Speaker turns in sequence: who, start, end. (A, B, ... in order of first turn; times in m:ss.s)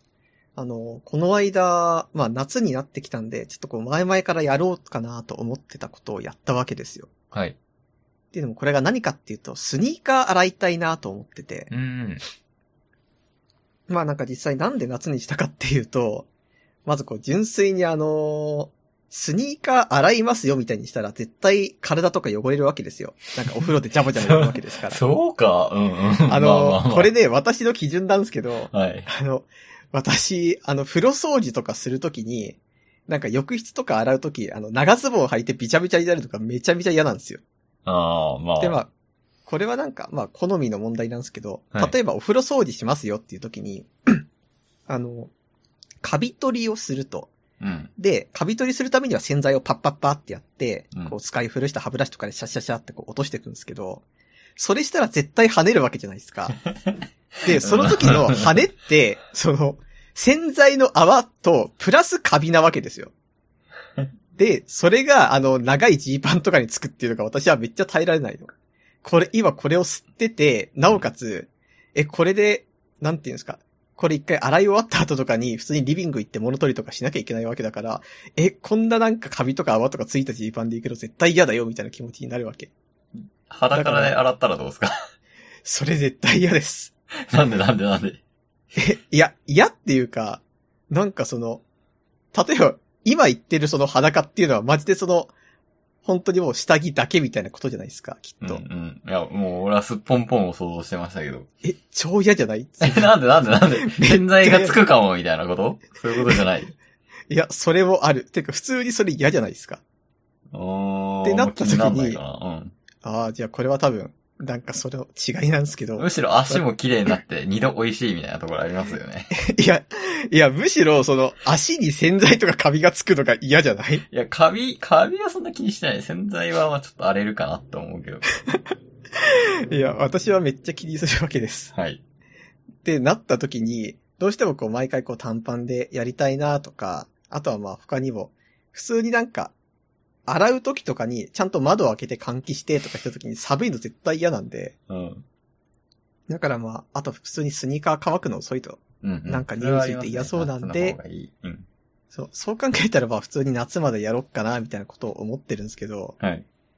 0:00.6-0:07.1 A
0:07.3-0:07.6 B
0:08.3-0:11.7 A
0:11.7-0:12.2 B
0:13.9-0:16.3 A
0:16.8-0:25.0 A
0:24.3-0:27.1 B
0:26.3-0:37.4 A
0:28.7-0:29.1 B
0:37.8-0:38.8 B
0:38.6-0:38.9 A
0:39.4-0:44.2 A
0:44.9-0:45.3 A
0:46.0-0:47.3 A
0:47.6-0:47.9 B
0:48.0-0:54.0 A
0:54.6-0:56.6 A
0:57.4-1:03.1 A
0:57.5-0:58.6 B
1:04.4-1:08.5 A
1:09.0-1:22.7 A
1:23.5-1:24.9 B
1:23.7-1:24.2 A
1:25.6-1:26.9 A
1:27.3-1:28.2 B
1:28.8-1:31.6 A
1:32.3-1:35.3 A
1:36.0-1:38.6 A
1:38.4-1:41.5 B
1:41.6-1:43.1 A
1:42.8-1:46.7 B
1:43.7-1:44.8 A
1:47.3-1:49.8 A
1:50.5-1:52.7 B
1:51.2-1:52.2 A
1:53.0-1:56.6 A
1:56.0-1:59.3 B
1:59.4-2:04.0 A
2:04.1-2:08.2 B
2:09.2-2:11.7 A
2:11.7-2:12.0 B
2:12.8-2:19.5 A
2:20.3-2:24.7 A
2:24.9-2:25.2 B
2:26.3-2:31.0 A
2:29.0-2:31.7 B
2:32.1-2:36.1 A
2:36.2-2:36.4 B